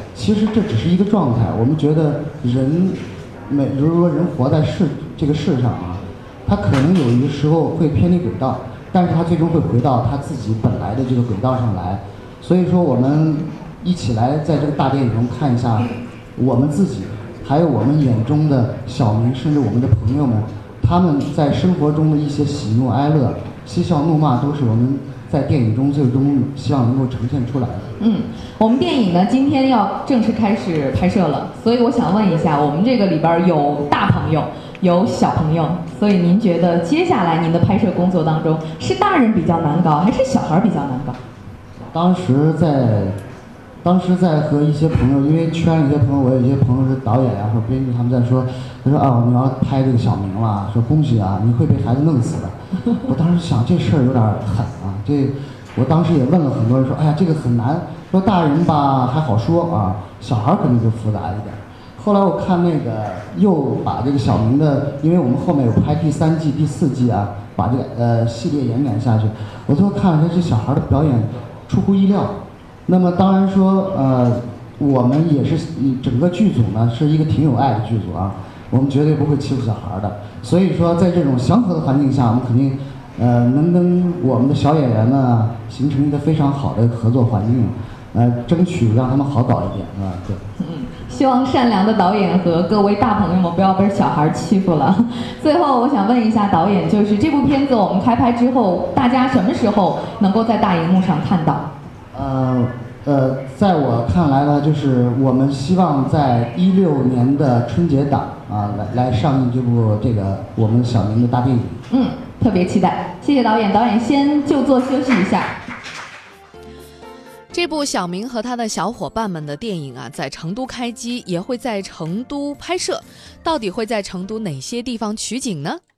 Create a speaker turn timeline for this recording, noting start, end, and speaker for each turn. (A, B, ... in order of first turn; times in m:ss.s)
0:00.2-0:27.9 A
0:28.0-0:41.2 B
0:41.9-0:43.2 A
0:43.8-1:30.4 A
1:30.6-1:41.7 B
1:42.1-1:51.8 A
1:51.9-1:55.6 B
1:57.5-2:05.8 C